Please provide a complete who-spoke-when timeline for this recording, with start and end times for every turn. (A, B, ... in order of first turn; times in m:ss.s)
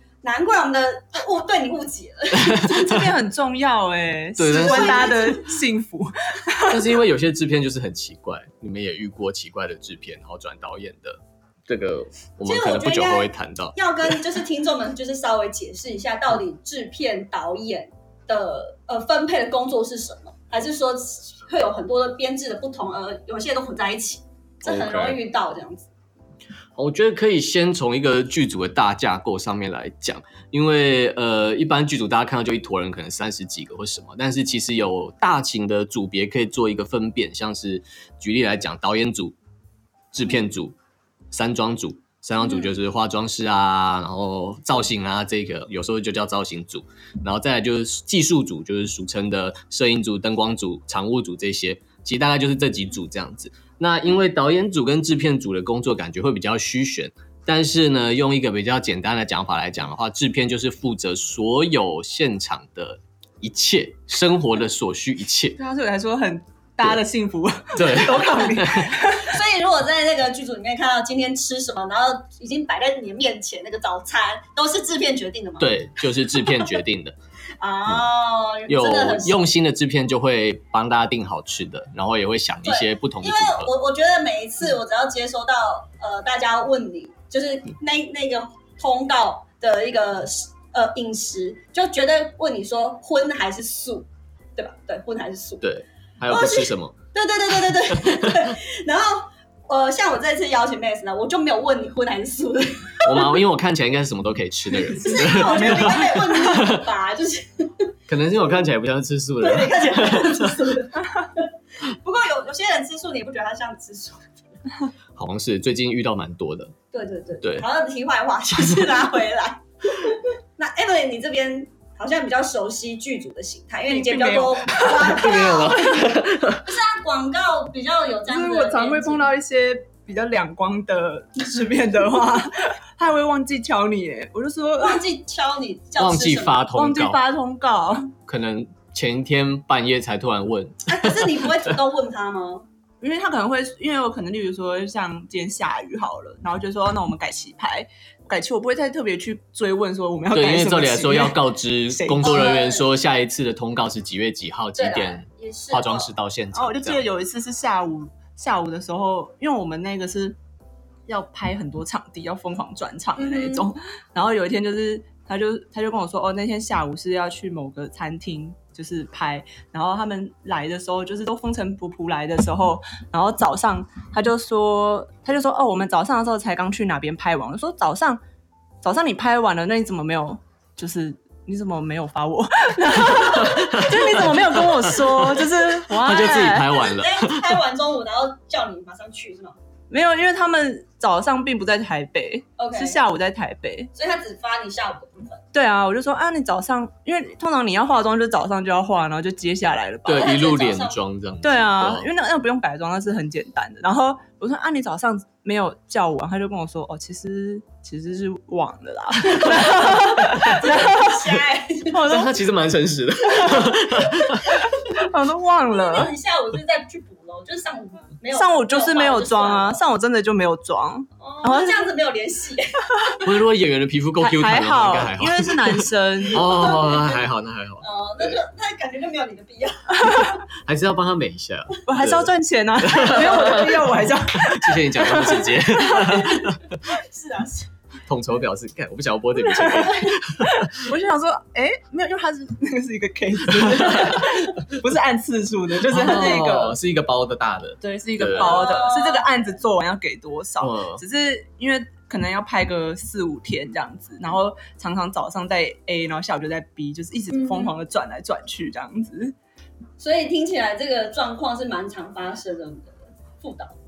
0:00.2-0:03.1 A
0:02.3-0:02.8 B
0:02.8-0:06.9 C
0:04.4-0:05.2 B
0:04.5-0:05.5 A
0:06.7-0:14.2 B
0:12.4-0:25.9 A
0:24.6-0:25.2 B
0:26.8-0:39.4 B
0:40.1-0:40.8 B
0:41.3-1:05.6 B
0:42.4-0:42.8 A
1:05.6-1:09.4 C
1:07.8-1:08.9 B
1:09.2-1:16.7 A
1:15.6-1:17.2 B
1:17.6-1:19.5 A
1:18.7-1:23.7 B
1:22.6-1:35.6 A
1:35.6-1:37.0 B
1:36.3-1:43.3 A
1:43.0-1:46.8 B
1:45.0-1:47.9 A
1:45.1-1:45.8 C
1:48.1-1:50.5 B
1:49.4-1:54.3 A
1:55.2-1:56.7 B
1:56.9-2:06.0 A
2:03.9-2:05.3 C
2:05.0-2:06.7 B
2:06.6-2:09.3 A
2:08.3-2:15.0 C
2:14.8-2:16.7 A
2:16.0-2:17.2 B
2:16.8-2:18.1 C
2:18.3-2:21.7 B
2:20.9-2:22.7 A
2:23.0-2:31.4 C
2:30.3-2:37.0 B
2:31.9-2:32.5 C
2:32.2-2:32.9 A
2:34.8-2:36.1 A
2:36.5-2:40.4 C
2:41.1-2:58.2 C
2:43.2-2:43.7 A
2:58.8-3:06.8 C
3:03.1-3:07.6 B
3:06.7-3:09.6 A
3:09.9-3:13.9 C
3:12.6-3:13.0 A
3:14.0-3:15.4 A
3:15.5-3:20.3 C
3:20.0-3:22.1 B
3:20.1-3:21.0 A
3:21.4-3:32.4 C
3:29.2-3:32.0 A
3:32.1-3:34.7 B
3:34.9-3:36.1 C
3:35.8-3:39.8 A
3:38.3-3:41.9 C
3:41.2-3:43.3 A
3:43.2-3:48.4 B
3:44.2-3:46.5 C
3:46.4-3:47.2 A
3:47.8-3:50.3 A
3:50.3-3:52.3 B
3:51.9-3:56.1 C
3:52.8-3:56.7 B
3:56.1-3:57.7 A
3:58.1-4:00.7 B
3:59.4-4:06.8 C
4:05.9-4:08.6 B
4:07.8-4:19.3 C
4:08.3-4:09.3 A
4:10.6-4:11.0 B
4:17.3-4:17.7 A
4:20.0-4:23.7 A